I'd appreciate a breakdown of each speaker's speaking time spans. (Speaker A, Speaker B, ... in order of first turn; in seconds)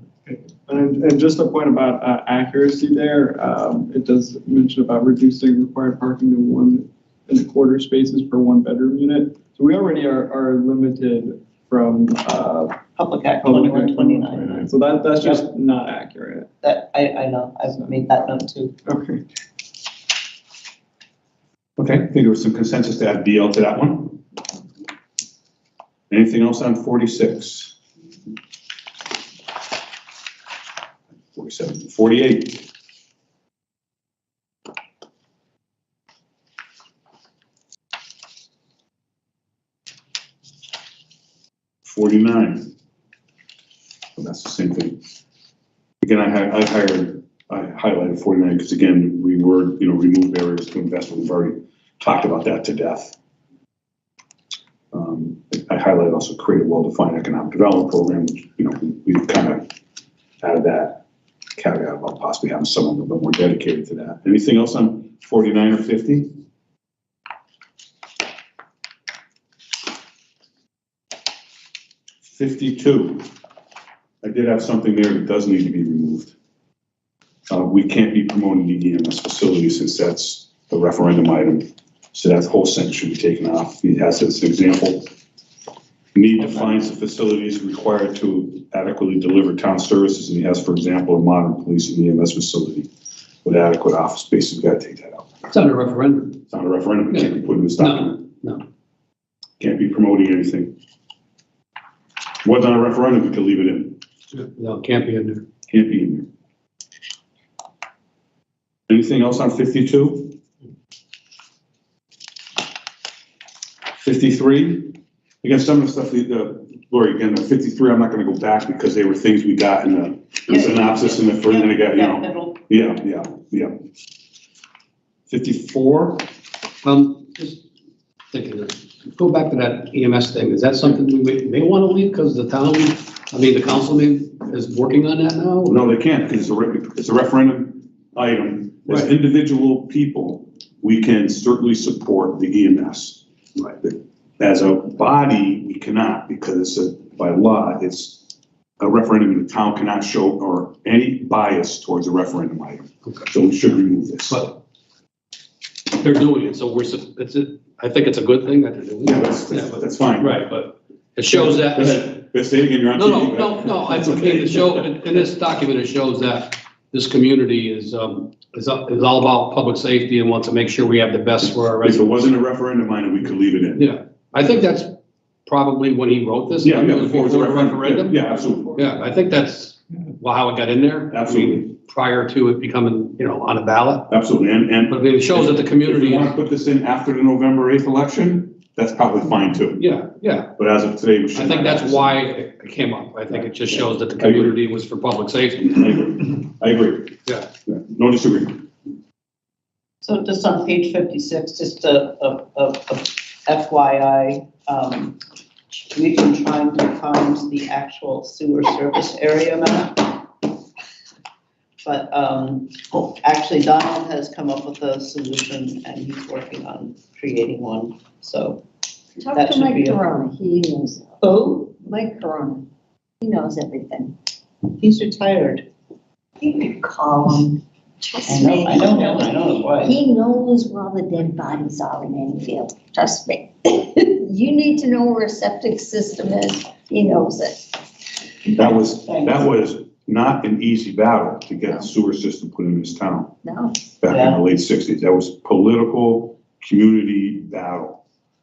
Speaker A: 0.2-12.8, 13.4-16.5, 17.7-18.2, 18.9-19.2, 178.2-178.8
Speaker B: 13.0-15.5, 16.6-18.7, 120.5-122.6, 200.0-205.2, 205.9-210.3, 211.8-218.6, 219.3-220.1, 221.2-221.8, 224.8-225.7, 228.3-230.0, 238.4-239.6, 244.1-244.4
Speaker C: 21.8-24.2, 26.1-27.8, 31.3-32.7, 41.9-42.7, 44.2-45.0, 46.0-53.1, 54.9-59.7, 60.4-61.0, 61.6-66.3, 72.2-73.3, 74.2-76.3, 77.5-85.1, 86.1-92.9, 93.4-95.5, 96.5-98.3, 99.6-100.7, 102.4-104.0, 105.7-106.3, 108.9-110.3, 114.0-123.8, 125.3-126.3, 135.7-148.3, 148.8-154.4, 159.0-160.4, 161.3-164.9, 171.8-173.9, 176.6-178.8, 181.1-181.7, 184.1-189.9, 190.6-192.2, 193.4-194.6, 195.6-198.7, 238.6-243.3, 244.0-248.0
Speaker D: 95.5-96.5, 97.1-98.6, 104.3-105.5, 126.8-127.6, 128.3-136.0, 154.3-154.6, 155.9-162.2, 162.9-172.3, 173.8-178.2, 178.7-184.1, 184.9-186.3, 189.8-190.5, 191.3-195.8
Speaker E: 219.2-221.2, 221.8-222.7, 223.2-224.2, 226.4-237.8, 243.4-243.8